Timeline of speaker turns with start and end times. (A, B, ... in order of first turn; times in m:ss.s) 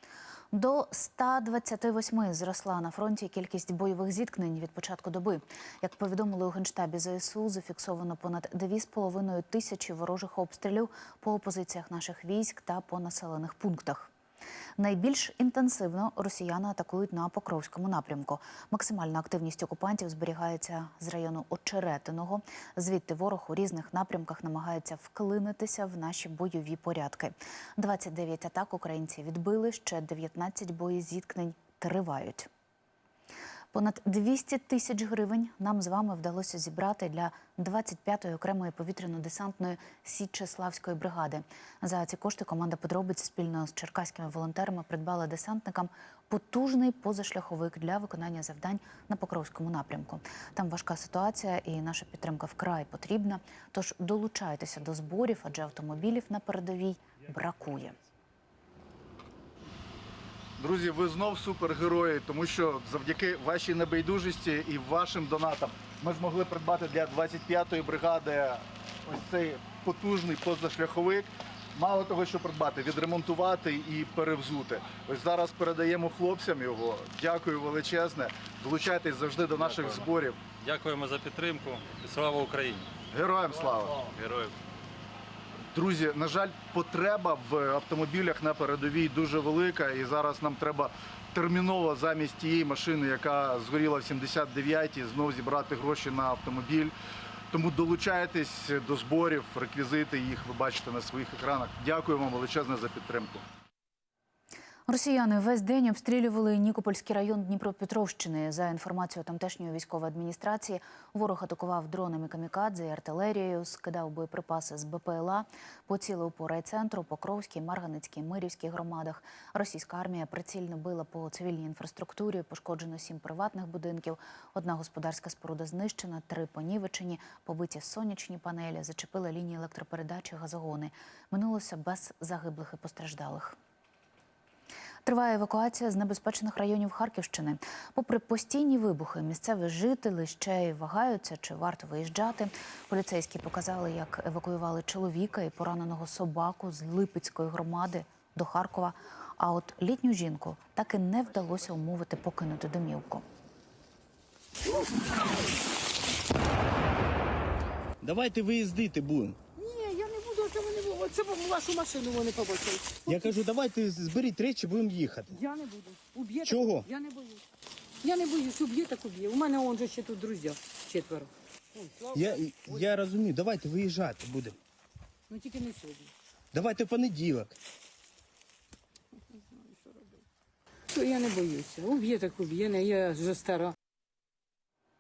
0:00.5-0:14.1 A
0:14.8-0:32.5 A
0:33.7-0:58.0 A
1:00.6-1:20.4 B
1:19.6-1:20.1 C
1:20.6-1:22.9 C
1:23.1-1:24.0 B
1:24.1-1:24.5 C
1:25.7-1:36.9 B
1:37.5-1:43.4 B
1:44.9-2:13.6 A
2:15.0-2:33.2 A
2:38.0-2:39.4 D
2:39.6-2:43.4 E
2:43.1-2:45.4 D
2:45.3-2:47.4 E
2:46.4-2:46.9 D
2:48.0-2:52.9 E
2:52.1-2:54.6 D
2:55.3-2:56.1 E
2:56.5-2:57.5 D
3:00.9-3:03.7 E